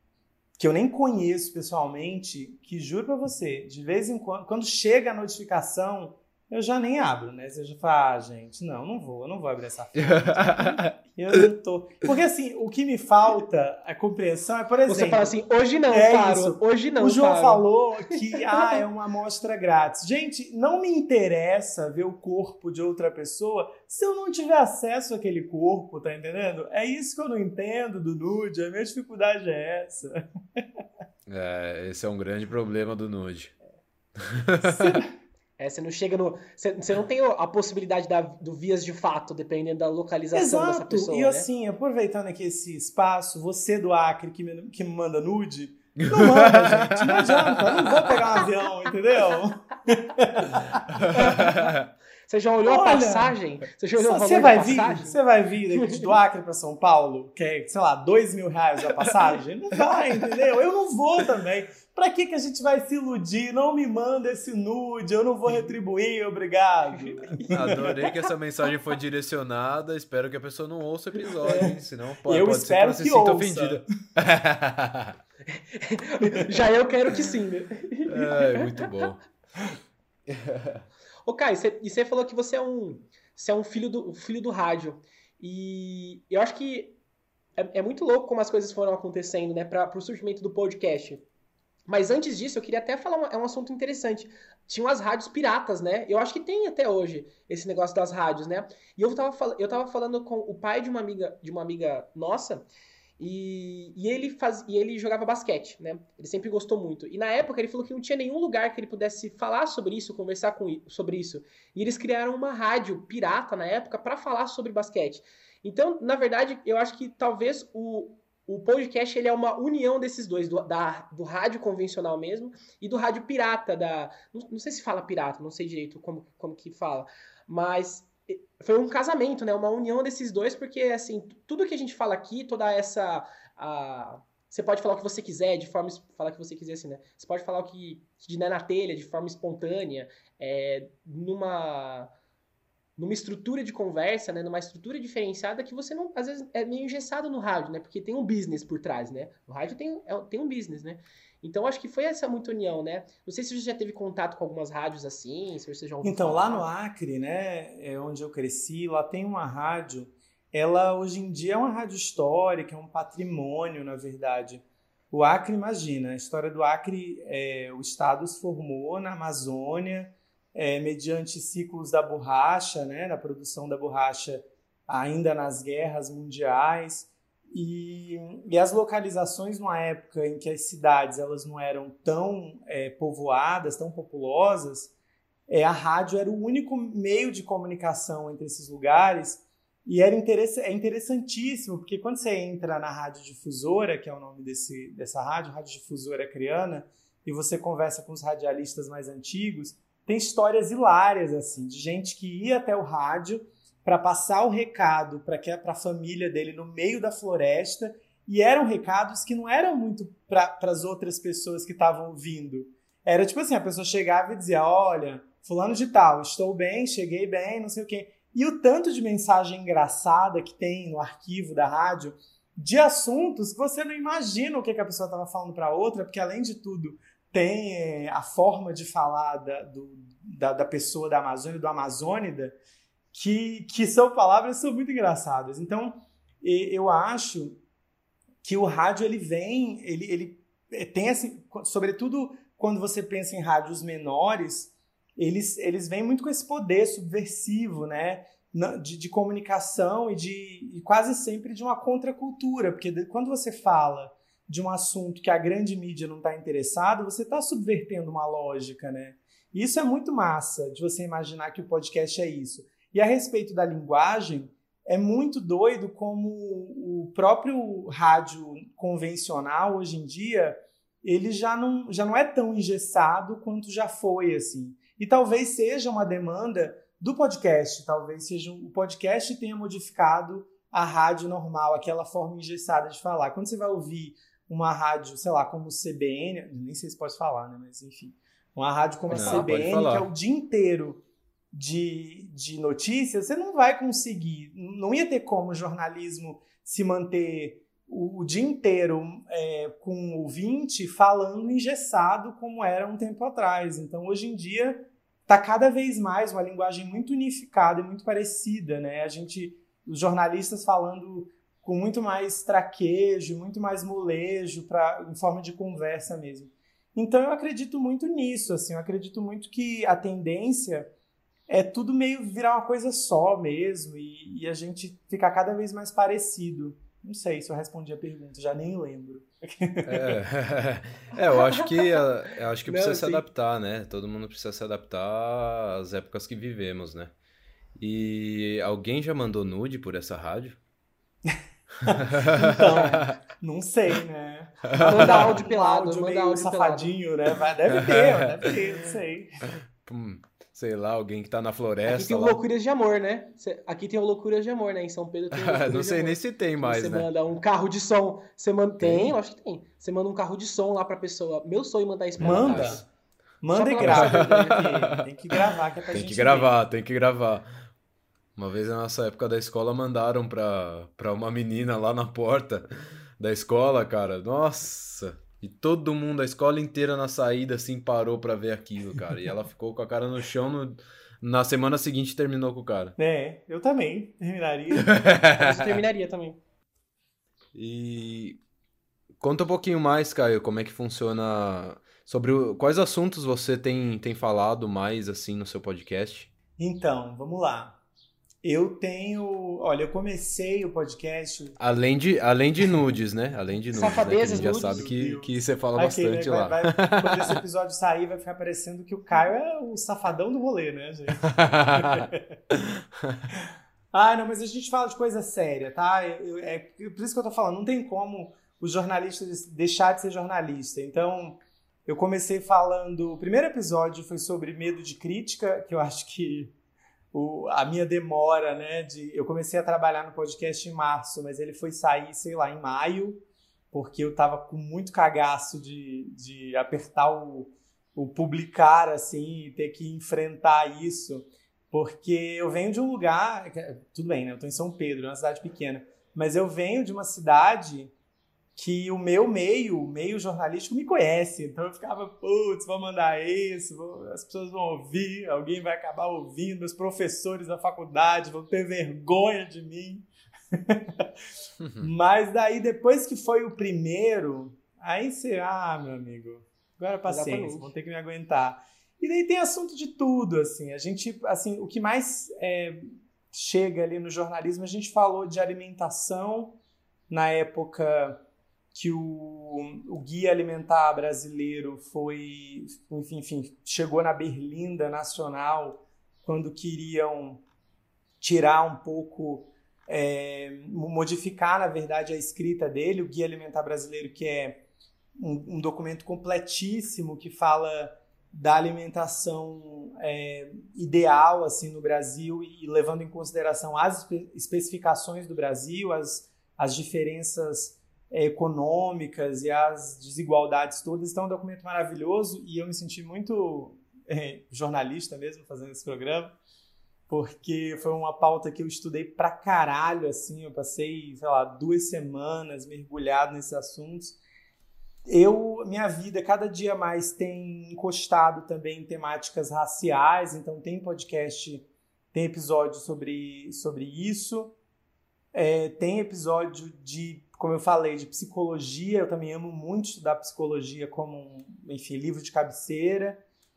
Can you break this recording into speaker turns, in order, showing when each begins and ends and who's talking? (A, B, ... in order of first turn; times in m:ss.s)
0:00.6-0:15.4 A
0:10.0-0:10.9 B
0:14.9-0:18.8 C
0:15.9-0:30.8 A
0:31.3-0:33.5 B
0:34.2-0:35.0 B
0:34.6-0:35.1 A
0:35.6-0:41.5 C
0:40.3-0:51.4 A
0:46.0-0:48.0 B
0:50.9-0:51.8 B
0:51.1-0:51.7 C
0:52.3-0:55.2 C
0:52.6-0:53.4 A
0:54.0-1:07.9 A
0:55.7-0:56.1 C
1:07.0-1:08.1 C
1:07.5-1:15.2 B
1:11.4-1:11.7 A
1:12.2-1:13.8 A
1:15.5-1:18.9 C
1:18.0-1:19.2 B
1:20.3-1:20.8 B
1:21.2-1:27.0 C
1:27.6-1:31.2 C
1:31.9-1:42.6 C
1:43.2-2:22.1 C
2:23.0-2:36.7 C
2:36.0-3:04.9 A
3:05.5-3:52.6 A
3:53.1-3:57.6 A
3:58.4-5:20.9 A
4:49.1-4:49.5 C
4:49.1-4:50.1 B
5:21.5-5:30.2 A
5:29.8-5:37.1 B
5:31.3-5:31.8 C
5:32.7-5:33.2 C
5:37.8-5:40.6 B
5:41.2-5:49.4 A
5:41.8-5:43.1 B
5:44.7-5:45.4 B
5:44.8-5:46.9 C
5:47.7-5:48.6 B
5:49.8-5:52.4 B
5:51.8-6:02.8 C
5:55.3-5:57.1 B
5:58.8-5:59.2 B
6:02.2-6:02.8 B
6:02.2-6:02.8 A
6:03.4-6:06.5 A
6:03.5-6:04.5 C
6:03.8-6:07.6 B
6:08.4-6:12.7 B
6:13.2-6:23.0 B
6:23.0-6:24.9 A
6:24.7-6:25.7 B
6:25.4-6:26.4 C
6:27.5-6:28.4 B
6:29.2-6:36.3 B
6:36.6-6:37.8 A
6:38.4-6:41.6 A
6:41.6-6:47.4 B
6:43.7-6:44.9 C
6:43.8-6:52.2 A
6:51.2-6:53.3 B
6:53.3-7:06.5 A
7:07.1-7:27.9 A
7:28.6-7:41.1 A
7:41.8-7:56.6 A
7:47.0-7:47.7 C
7:57.1-7:58.2 A
7:58.7-8:07.4 A
8:08.2-8:14.6 A
8:15.2-8:36.4 A
8:37.1-8:44.2 A
8:45.1-8:54.6 A
8:55.3-9:03.2 A